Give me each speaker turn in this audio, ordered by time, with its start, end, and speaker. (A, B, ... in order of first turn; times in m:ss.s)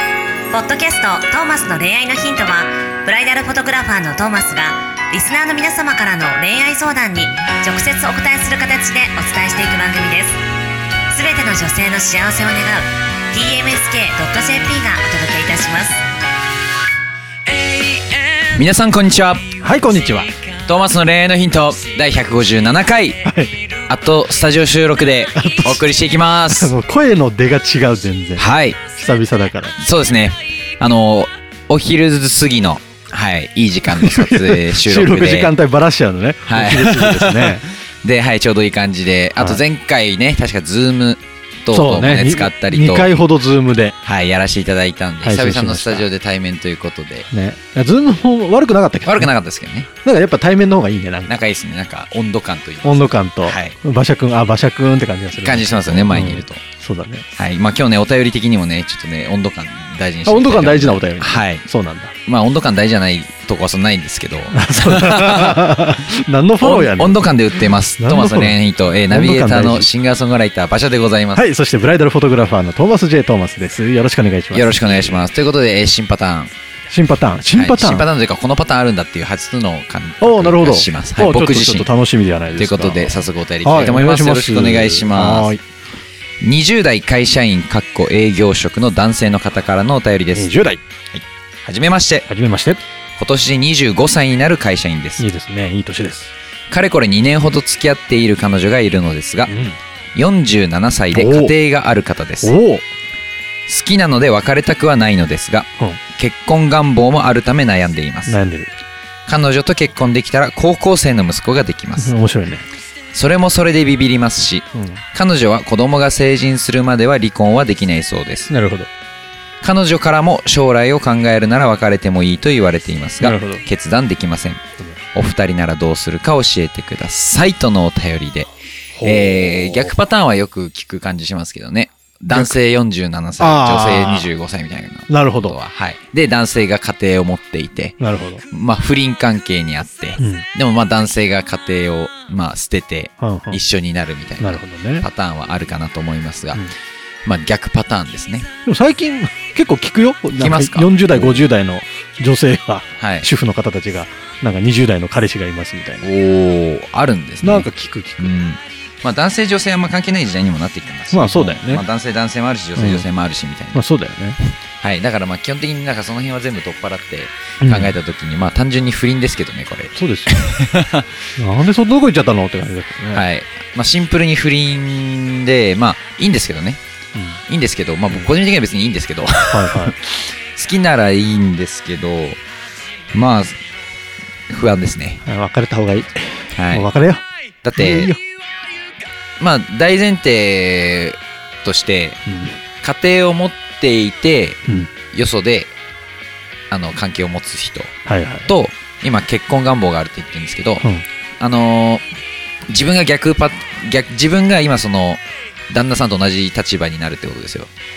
0:00.5-0:10.4 A
0:11.1-0:16.0 A
0:17.5-0:19.6 B
0:19.6-0:20.3 C
0:20.5-0:23.3 B
0:23.2-0:23.5 C
0:23.9-0:26.7 B
0:25.3-0:25.9 C
0:26.5-0:29.8 C
0:28.4-0:28.8 B
0:29.8-0:35.5 B
0:33.9-0:37.7 C
0:36.5-0:43.1 B
0:41.7-0:44.0 C
0:44.0-0:47.3 B
0:45.2-0:46.1 C
0:47.3-0:49.3 C
0:49.0-0:49.9 B
0:50.0-0:51.4 C
0:51.3-0:53.8 B
0:52.8-0:57.2 C
0:55.4-0:56.6 B
0:57.4-1:01.7 B
1:00.2-1:02.1 C
1:02.3-1:05.8 B
1:04.5-1:07.2 C
1:06.6-1:11.5 B
1:08.0-1:09.9 C
1:11.4-1:15.2 C
1:14.5-1:16.5 B
1:16.9-1:18.1 C
1:17.5-1:21.9 B
1:20.2-1:23.1 C
1:22.6-1:25.5 B
1:23.6-1:25.6 C
1:26.4-1:30.5 B
1:30.3-1:30.8 C
1:31.1-1:32.3 B
1:32.3-1:32.8 C
1:33.2-1:35.2 B
1:35.2-1:36.3 C
1:36.7-1:39.5 B
1:39.5-1:39.8 C
1:40.2-1:42.5 B
1:41.1-1:41.6 C
1:42.4-1:42.9 C
1:43.7-1:48.4 B
1:48.3-1:48.7 C
1:49.3-1:52.1 B
1:52.0-1:52.7 C
1:53.1-1:58.5 B
1:54.8-1:55.0 C
1:58.5-1:58.9 C
1:59.6-2:04.6 B
2:03.2-2:03.6 C
2:05.1-2:08.5 B
2:09.0-2:09.9 C
2:09.0-2:18.0 B
2:13.4-2:14.3 C
2:15.1-2:15.6 C
2:18.0-2:18.4 C
2:18.5-2:26.7 B
2:20.2-2:20.4 C
2:23.2-2:23.6 C
2:24.4-2:25.1 C
2:27.2-2:28.5 B
2:28.6-2:36.0 C
2:30.4-2:31.4 B
2:33.0-2:33.3 B
2:36.0-2:37.7 B
2:37.4-2:38.3 C
2:38.2-2:43.8 B
2:41.1-2:41.9 C
2:42.8-2:43.1 C
2:43.7-2:44.4 C
2:44.8-2:51.0 B
2:47.6-2:47.9 C
2:50.0-2:50.4 C
2:51.4-2:53.2 C
2:53.1-2:56.8 B
2:57.2-2:57.4 C
2:57.5-3:02.4 B
2:59.5-3:00.0 C
3:03.1-3:03.6 B
3:04.5-3:05.2 B
3:05.2-3:07.2 C
3:06.6-3:06.9 B
3:07.6-3:08.1 B
3:07.8-3:08.2 C
3:09.4-3:12.2 B
3:12.3-3:12.6 C
3:12.8-3:15.8 B
3:16.7-3:18.0 B
3:18.1-3:18.5 C
3:18.5-3:20.8 B
3:21.4-3:22.0 B
3:22.7-3:27.7 B